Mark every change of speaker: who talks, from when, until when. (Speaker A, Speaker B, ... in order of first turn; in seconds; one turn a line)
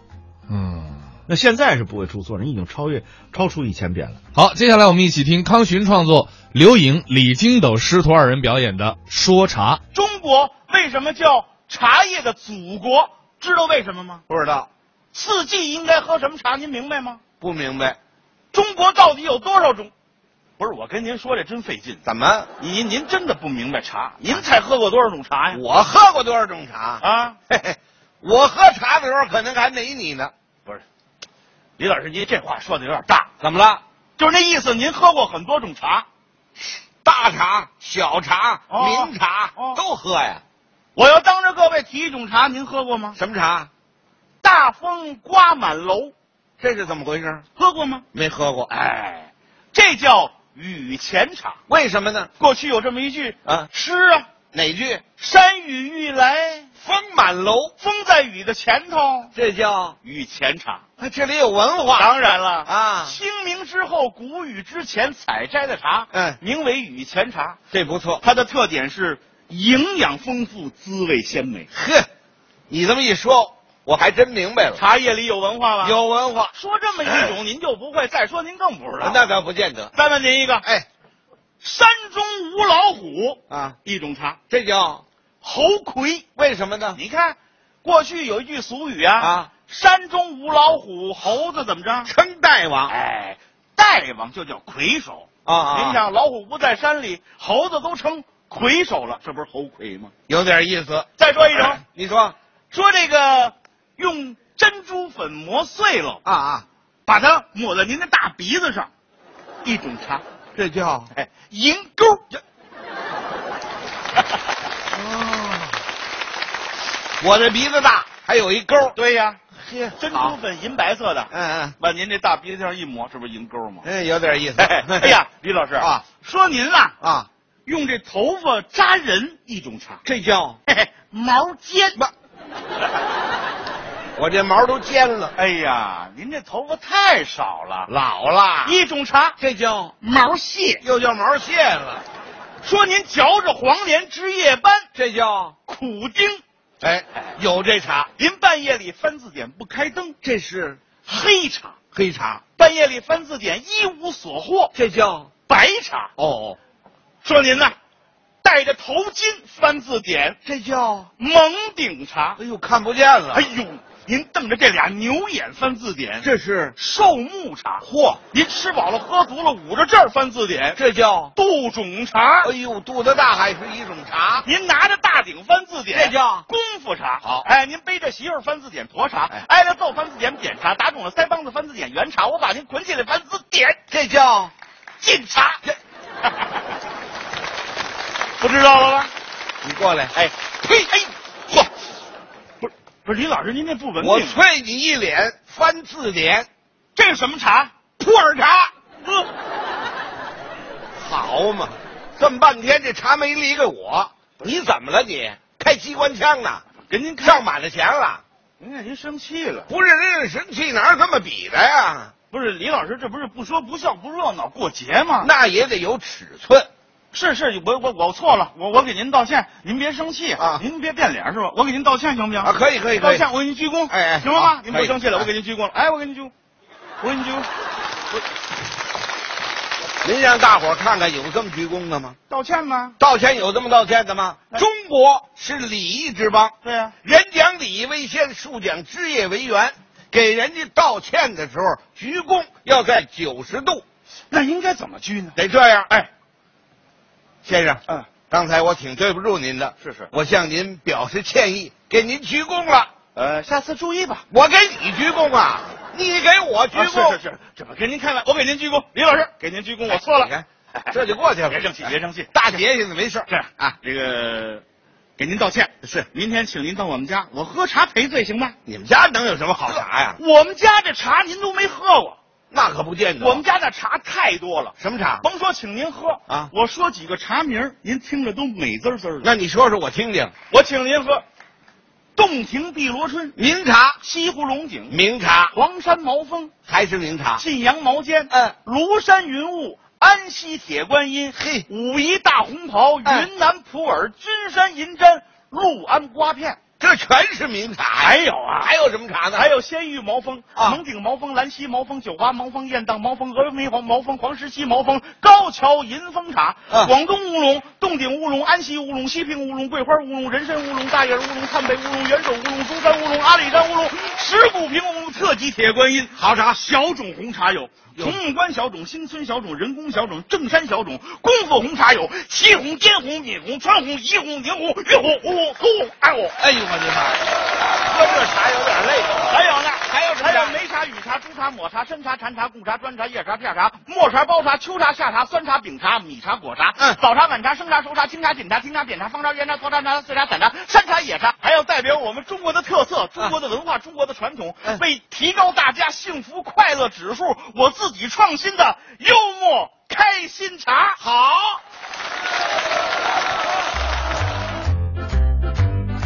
Speaker A: 0.5-1.1
Speaker B: 1.3-4.2
Speaker A: 4.3-9.8
Speaker C: 9.9-14.2
Speaker D: 14.3-14.7
Speaker C: 15.1-17.2
Speaker D: 17.4-18.0
Speaker C: 18.5-19.9
Speaker C: 20.6-22.0
Speaker D: 22.0-22.5
Speaker C: 22.6-25.6
Speaker D: 25.5-30.3
Speaker C: 27.0-27.4
Speaker C: 31.8-33.3
Speaker D: 33.4-33.8
Speaker C: 34.2-36.1
Speaker D: 37.0-40.4
Speaker C: 38.7-39.8
Speaker C: 41.0-43.2
Speaker D: 43.1-43.7
Speaker C: 44.4-46.1
Speaker D: 46.6-47.4
Speaker C: 47.5-48.0
Speaker D: 48.1-48.7
Speaker C: 48.7-51.6
Speaker D: 51.7-52.3
Speaker C: 52.4-54.3
Speaker D: 54.5-55.0
Speaker C: 55.2-56.7
Speaker D: 56.8-57.7
Speaker C: 57.8-59.3
Speaker D: 59.3-60.0
Speaker C: 60.0-60.8
Speaker D: 61.0-62.1
Speaker C: 62.0-67.6
Speaker D: 62.6-63.2
Speaker D: 66.1-66.4
Speaker D: 67.7-68.2
Speaker C: 68.2-71.7
Speaker D: 71.7-72.1
Speaker D: 72.7-74.8
Speaker C: 74.8-76.0
Speaker D: 75.8-77.3
Speaker C: 76.5-79.3
Speaker D: 79.0-79.9
Speaker C: 79.9-80.7
Speaker C: 81.6-84.4
Speaker D: 83.5-83.8
Speaker D: 84.5-85.0
Speaker C: 85.4-86.3
Speaker D: 86.4-87.0
Speaker C: 86.9-92.1
Speaker D: 89.2-89.5
Speaker D: 92.1-92.9
Speaker C: 92.9-100.1
Speaker D: 95.5-96.0
Speaker D: 100.3-102.3
Speaker C: 101.2-101.8
Speaker C: 102.7-106.2
Speaker D: 106.2-106.7
Speaker C: 107.0-108.9
Speaker C: 109.6-110.2
Speaker D: 110.5-111.1
Speaker C: 111.1-112.4
Speaker D: 114.9-115.8
Speaker D: 117.2-118.9
Speaker C: 118.9-119.4
Speaker D: 119.6-120.4
Speaker C: 120.0-123.9
Speaker D: 121.3-121.7
Speaker D: 123.8-125.2
Speaker C: 124.6-127.0
Speaker D: 125.8-126.0
Speaker D: 127.0-127.3
Speaker C: 127.7-130.0
Speaker D: 130.0-130.6
Speaker C: 130.7-132.0
Speaker D: 134.2-135.3
Speaker C: 135.3-137.9
Speaker D: 137.9-138.8
Speaker C: 138.6-139.4
Speaker D: 139.4-139.9
Speaker C: 140.0-140.8
Speaker D: 140.8-142.0
Speaker C: 142.6-144.9
Speaker D: 144.9-145.5
Speaker C: 145.7-146.4
Speaker D: 146.8-148.1
Speaker C: 148.2-150.2
Speaker D: 150.2-150.8
Speaker C: 151.0-151.8
Speaker D: 151.9-152.4
Speaker C: 152.6-154.7
Speaker D: 154.7-155.3
Speaker C: 155.5-156.1
Speaker D: 156.2-156.6
Speaker C: 157.2-157.7
Speaker C: 158.4-160.4
Speaker D: 160.4-161.1
Speaker C: 161.2-162.4
Speaker D: 162.4-163.5
Speaker C: 163.3-170.8
Speaker D: 166.2-166.8
Speaker D: 167.8-168.2
Speaker D: 170.8-171.3
Speaker C: 171.3-172.5
Speaker D: 172.4-174.4
Speaker C: 174.4-183.8
Speaker D: 175.9-176.4
Speaker D: 183.9-184.5
Speaker C: 185.0-185.6
Speaker C: 188.4-189.1
Speaker D: 189.6-190.1
Speaker C: 190.1-191.7
Speaker C: 192.6-194.4
Speaker D: 194.0-196.5
Speaker C: 196.9-197.7
Speaker D: 198.0-198.7
Speaker C: 199.0-199.3
Speaker D: 200.9-206.6
Speaker C: 206.8-207.4
Speaker D: 207.2-208.2
Speaker C: 208.6-209.7
Speaker D: 209.7-212.1
Speaker C: 212.3-215.3
Speaker D: 215.2-216.7
Speaker C: 217.1-226.3
Speaker D: 222.4-223.2
Speaker D: 223.9-225.2
Speaker C: 227.0-227.5
Speaker D: 230.0-232.2
Speaker C: 232.3-233.0
Speaker D: 233.0-243.8
Speaker C: 236.6-236.9
Speaker C: 244.3-246.1
Speaker D: 245.3-245.9
Speaker D: 247.4-252.9
Speaker C: 249.8-250.1
Speaker C: 253.1-254.2
Speaker D: 254.3-257.2
Speaker C: 256.7-262.6
Speaker D: 259.9-261.6
Speaker D: 262.3-263.7
Speaker C: 263.3-264.6
Speaker C: 265.2-268.6
Speaker D: 268.6-270.2
Speaker C: 270.2-272.2
Speaker D: 272.5-273.4
Speaker C: 273.2-279.3
Speaker D: 274.8-275.2
Speaker D: 279.2-280.3
Speaker C: 280.5-281.2
Speaker C: 282.1-283.4
Speaker D: 283.4-284.0
Speaker C: 284.0-285.0
Speaker D: 284.9-285.5
Speaker C: 285.5-286.5
Speaker D: 286.7-287.4
Speaker C: 287.4-296.6
Speaker D: 291.4-291.6
Speaker D: 296.8-299.5
Speaker C: 298.0-298.8
Speaker C: 299.3-326.4
Speaker D: 316.1-316.6
Speaker D: 326.4-329.4
Speaker C: 329.3-351.0
Speaker D: 329.9-330.6
Speaker D: 351.0-351.6